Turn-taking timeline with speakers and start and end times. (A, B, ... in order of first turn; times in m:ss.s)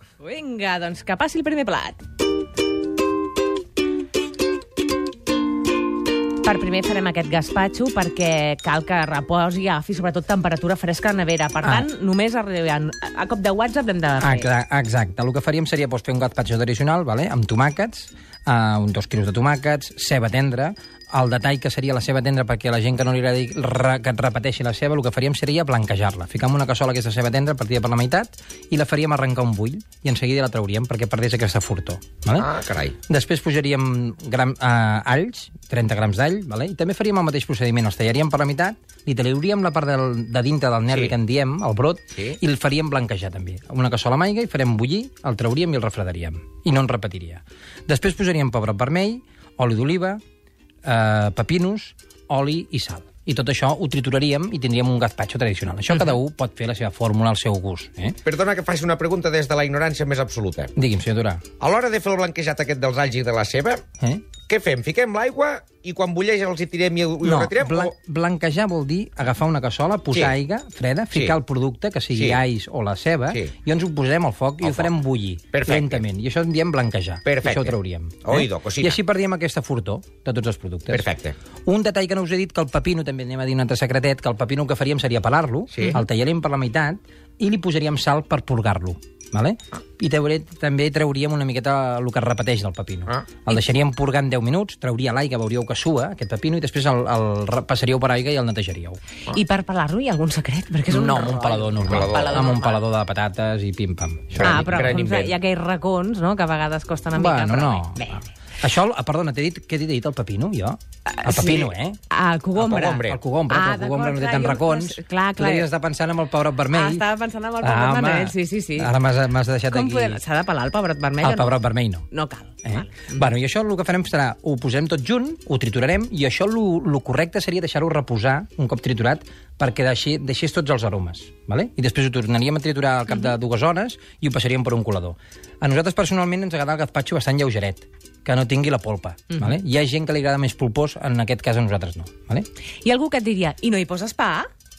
0:00.2-0:02.0 A
0:06.4-0:14.5 A
0:14.2-0:32.5 B
0:32.4-0:33.0 C
0:33.1-0:50.2 B
0:40.9-0:41.1 C
0:50.8-0:58.2 B
0:58.2-1:00.7 C
1:00.8-1:01.4 B
1:01.6-1:03.8 C
1:04.0-1:04.3 B
1:04.4-1:07.9 C
1:07.2-1:21.1 B
1:11.1-1:11.4 C
1:12.1-1:12.4 C
1:14.6-1:14.9 C
1:15.5-1:16.0 C
1:17.2-1:19.0 C
1:20.9-1:21.3 C
1:21.6-1:39.0 B
1:25.7-1:26.0 C
1:39.3-1:42.8 A
1:40.9-1:44.9 B
1:41.8-1:42.5 C
1:44.3-1:45.3 C
1:44.4-1:48.3 A
1:47.1-1:52.0 B
1:51.1-1:55.7 A
1:52.6-1:53.2 C
1:52.8-1:57.0 B
1:56.7-1:58.9 A
1:57.6-2:00.2 B
1:59.7-2:01.6 A
2:01.2-2:02.1 B
2:02.1-2:03.1 A
2:02.6-2:22.5 B
2:22.8-2:24.5 A